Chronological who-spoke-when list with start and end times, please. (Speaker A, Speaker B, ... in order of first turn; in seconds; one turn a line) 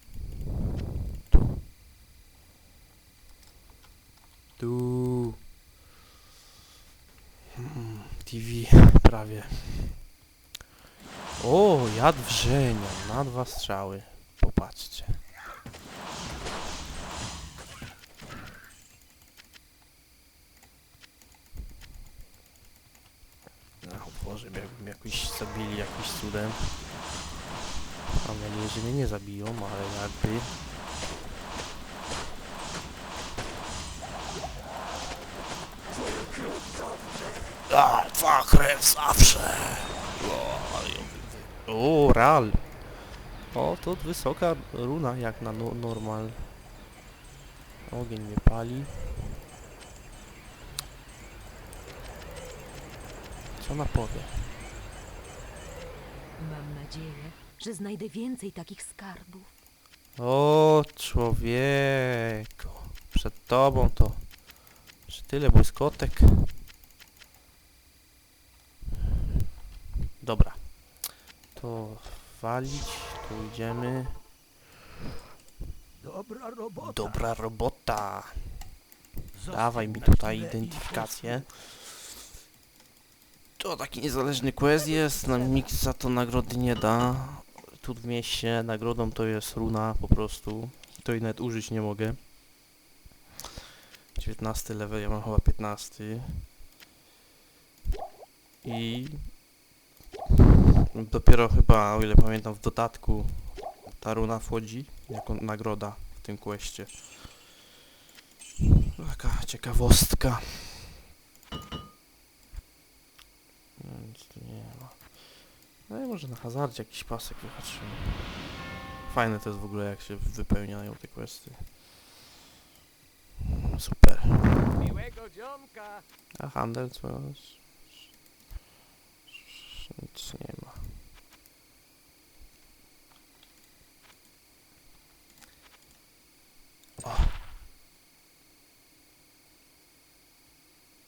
Speaker A: 4.6-5.4
Speaker A: 7.5-10.0
Speaker A: 11.4-15.2
Speaker A: 23.8-26.8
Speaker A: 28.2-30.5
Speaker A: 37.7-42.9
Speaker A: 43.5-46.5
Speaker A: 47.8-49.3
Speaker A: 53.6-54.5
Speaker B: 56.4-59.5
Speaker A: 60.1-64.4
Speaker A: 65.1-66.6
Speaker A: 70.2-74.2
Speaker C: 76.0-77.2
Speaker A: 76.8-78.7
Speaker C: 79.3-81.6
Speaker A: 79.5-81.8
Speaker A: 83.6-92.3
Speaker B: 84.8-85.7
Speaker A: 94.2-96.5
Speaker A: 98.6-99.4
Speaker A: 100.9-107.5
Speaker A: 109.0-110.9
Speaker A: 113.8-115.2
Speaker A: 115.8-121.8
Speaker A: 123.7-124.6
Speaker C: 124.7-126.0
Speaker A: 126.3-128.0
Speaker A: 129.4-131.0
Speaker A: 137.0-137.5